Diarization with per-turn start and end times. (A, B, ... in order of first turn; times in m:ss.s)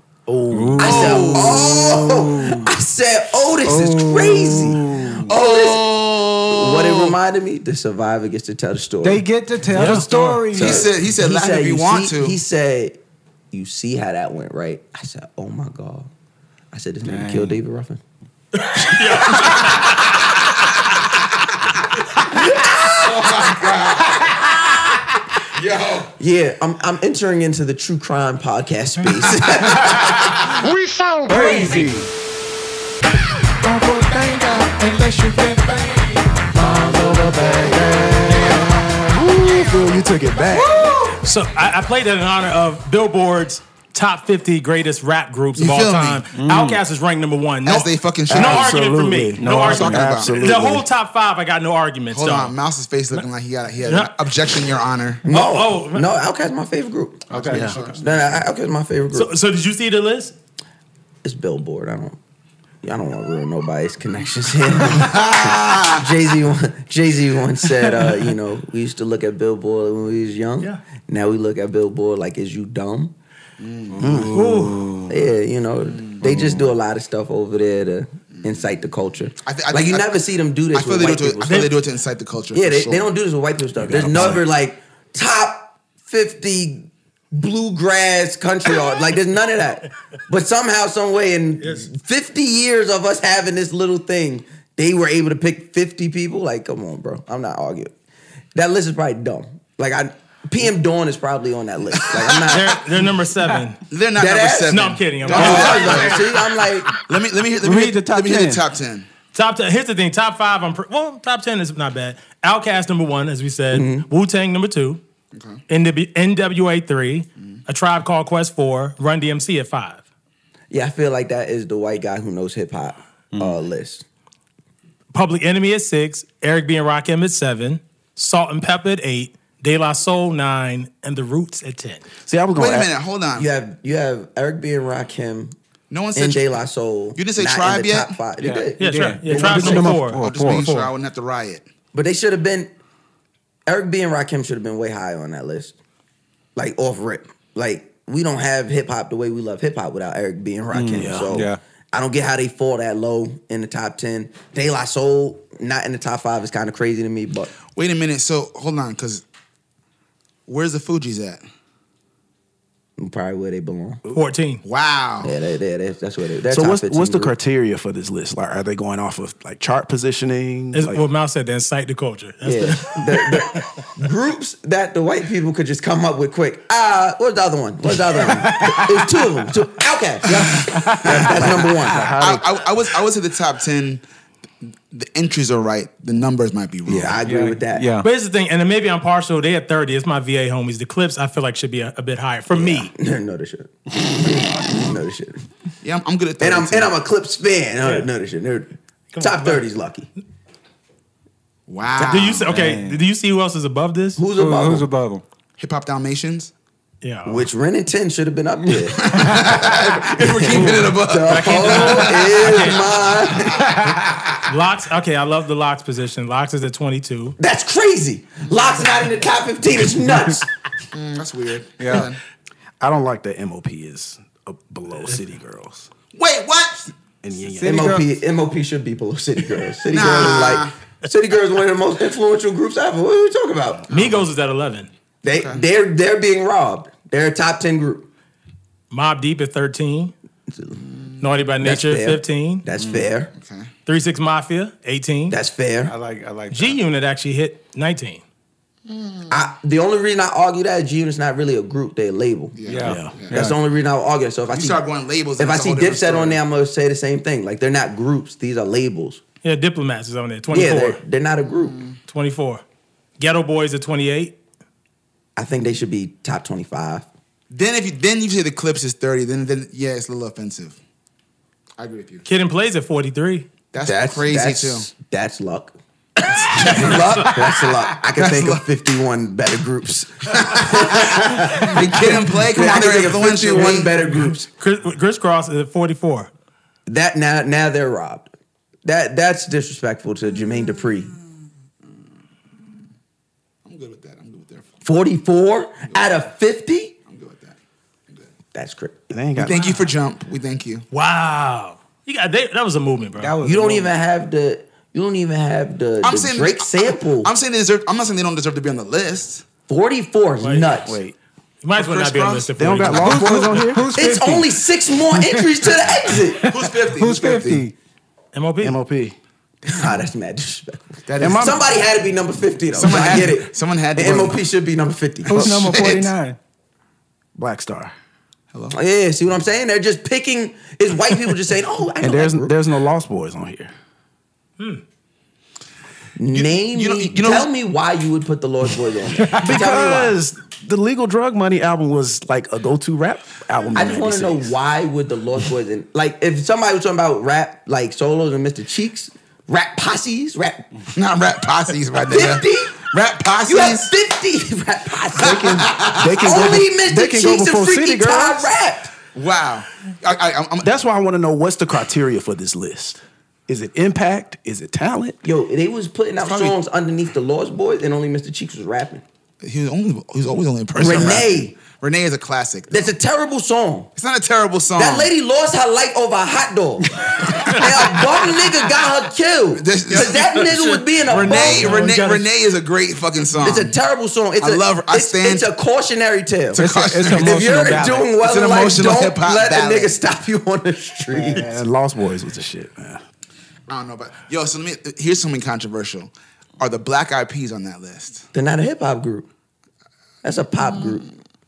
0:00.3-0:01.9 A
0:00.5-0:01.3 B
0:00.7-0:09.2 C
0:00.8-0:01.7 D
0:03.6-0:05.3 B
0:05.3-0:07.1 D
0:09.0-0:10.9 B
0:09.7-0:10.5 E
0:10.5-0:13.0 C
0:10.5-0:12.4 D
0:13.5-0:16.1 C
0:16.7-0:18.0 C
0:17.0-0:17.6 B
0:18.6-0:19.9 E
0:19.0-0:19.9 C
0:22.3-0:24.7 C
0:23.0-0:24.2 D
0:25.5-0:26.1 D
0:26.2-0:30.5 C
0:30.6-0:31.9 F
0:31.3-0:32.1 B
0:33.6-0:35.7 A
0:36.5-0:40.9 A
0:40.5-0:41.2 F
0:41.2-0:52.5 E
0:45.6-0:46.2 D
0:46.3-0:46.8 B
0:47.6-0:48.9 D
0:48.3-0:50.8 A
0:49.4-0:50.3 B
0:49.6-0:50.5 D
0:52.1-0:55.2 D
0:53.8-0:54.6 E
0:55.2-0:56.1 E
0:55.2-0:59.4 C
0:57.3-0:57.7 B
0:57.5-0:57.9 A
0:57.5-0:58.0 D
0:59.1-1:00.3 E
1:01.2-1:02.2 C
1:02.8-1:13.1 C
1:05.0-1:06.0 D
1:13.6-1:14.2 D
1:14.0-1:14.6 A
1:14.0-1:15.1 B
1:14.3-1:14.8 E
1:15.1-1:21.7 C
1:15.9-1:16.2 D
1:19.4-1:23.1 D
1:21.5-1:21.7 E
1:22.5-1:37.9 C
1:23.8-1:24.4 A
1:38.5-1:42.8 C
1:42.1-1:42.5 D
1:42.4-1:43.8 E
1:43.9-1:46.2 D
1:44.2-1:46.9 C
1:44.7-1:46.2 E
1:45.3-1:46.3 B
1:47.1-1:49.1 D
1:47.6-1:48.6 B
1:49.3-1:55.0 E
1:53.7-1:54.1 C
1:55.3-1:55.6 D
1:55.7-2:00.0 E
2:00.7-2:04.0 C
2:05.1-2:12.0 E
2:12.2-2:12.9 A
2:12.5-2:13.5 D
2:13.4-2:15.5 C
2:15.9-2:16.4 D
2:16.2-2:20.1 C
2:17.2-2:18.1 D
2:18.4-2:20.7 B
2:18.8-2:20.9 E
2:20.2-2:21.6 D
2:21.9-2:22.7 C
2:23.7-2:25.7 C
2:26.6-2:37.5 C
2:30.7-2:31.6 B
2:30.9-2:31.4 A
2:37.7-2:39.2 D
2:40.5-2:41.4 D
2:43.0-2:44.0 C
2:44.1-2:44.6 E
2:44.6-2:45.3 D
2:45.2-2:47.3 C
2:46.5-2:51.0 A
2:50.7-2:53.6 E
2:52.4-3:02.1 C
3:00.7-3:01.0 B
3:01.4-3:02.5 A
3:02.1-3:04.0 D
3:04.9-3:07.2 D
3:06.9-3:07.9 C
3:07.2-3:08.1 B
3:08.0-3:12.9 E
3:12.5-3:15.4 C
3:15.8-3:17.0 D
3:16.4-3:20.1 C
3:19.1-3:19.6 E
3:21.7-3:22.5 D
3:22.0-3:24.2 E
3:22.5-3:23.0 B
3:24.2-3:24.9 C
3:24.4-3:25.2 B
3:25.6-3:26.5 D
3:27.0-3:27.5 E
3:27.2-3:33.8 C
3:28.9-3:32.6 D
3:31.2-3:33.0 E
3:34.4-3:37.4 E
3:37.4-3:40.5 C
3:40.9-3:42.2 D
3:41.8-3:42.1 B
3:42.8-3:45.9 A
3:46.1-3:46.9 D
3:47.2-3:48.0 A
3:47.4-3:48.0 B
3:47.6-3:53.9 C
3:49.9-3:50.7 D
3:53.9-3:54.9 E
3:53.9-3:54.2 D
3:55.2-3:58.1 C
3:55.3-3:55.6 D
3:58.9-4:00.1 E
4:00.5-4:00.8 C
4:01.2-4:02.6 E
4:01.6-4:03.3 C
4:02.8-4:03.1 B
4:03.4-4:03.7 D
4:03.8-4:05.4 E
4:05.3-4:05.9 C
4:05.8-4:06.8 B
4:06.5-4:08.2 E
4:08.9-4:09.3 D
4:09.3-4:12.6 C
4:12.6-4:13.4 D
4:12.7-4:13.6 B
4:12.8-4:13.2 A
4:13.3-4:14.8 C
4:14.5-4:16.4 D
4:15.4-4:19.2 C
4:19.4-4:21.0 E
4:20.5-4:21.8 C
4:21.6-4:22.0 D
4:22.1-4:22.6 E
4:23.2-4:24.4 E
4:25.4-4:27.0 C
4:27.5-4:30.8 D
4:31.8-4:32.2 D
4:32.2-4:33.5 E
4:33.7-4:34.9 D
4:33.8-4:35.7 C
4:36.4-4:44.5 C
4:36.4-4:37.3 D
4:38.1-4:38.6 D
4:40.3-4:44.0 D
4:44.5-4:46.3 E
4:46.9-4:48.3 C
4:48.8-4:51.1 C
4:53.6-4:54.7 D
4:54.8-4:56.9 C
4:55.9-4:56.2 D
4:57.0-4:57.6 D
4:58.5-4:59.1 C
4:59.1-4:59.7 A
4:59.4-5:00.8 D
5:00.9-5:03.4 E
5:03.2-5:03.9 B
5:03.4-5:07.3 C
5:06.0-5:09.4 D
5:09.7-5:11.0 C
5:10.4-5:10.8 E
5:10.8-5:11.1 A
5:11.6-5:13.6 E
5:11.7-5:13.5 D
5:12.6-5:14.1 A
5:13.0-5:14.4 B
5:13.9-5:16.4 C
5:15.1-5:15.5 B
5:16.4-5:17.7 B
5:16.5-5:17.7 D
5:18.3-5:18.8 E
5:18.6-5:19.1 A
5:19.7-5:25.8 C
5:21.1-5:21.6 D
5:21.2-5:21.6 A
5:22.7-5:24.4 D
5:25.3-5:26.4 B
5:25.3-5:26.0 A
5:25.4-5:26.1 D
5:27.4-5:27.9 A
5:28.5-5:28.8 D
5:28.7-5:32.5 C
5:32.0-5:33.7 A
5:36.2-5:40.2 C
5:36.3-5:37.5 D
5:39.4-5:44.5 A
5:43.7-5:50.7 C
5:50.9-5:53.9 D
5:52.0-5:52.8 C
5:53.4-5:58.9 C
5:55.2-5:58.5 A
5:55.4-5:56.3 D
5:59.1-6:00.7 D
6:00.6-6:05.2 A
6:05.2-6:09.0 C
6:06.2-6:06.6 D
6:09.4-6:12.9 D
6:10.8-6:11.5 C
6:12.7-6:13.9 C
6:14.0-6:15.1 D
6:14.8-6:21.8 C
6:19.5-6:23.7 D
6:20.7-6:22.3 E
6:23.4-6:31.4 C
6:24.4-6:25.5 D
6:26.5-6:28.1 B
6:26.6-6:27.5 D
6:28.2-6:29.9 D
6:31.1-6:33.0 A
6:33.7-6:38.3 D
6:38.3-6:39.3 C
6:40.2-6:41.0 C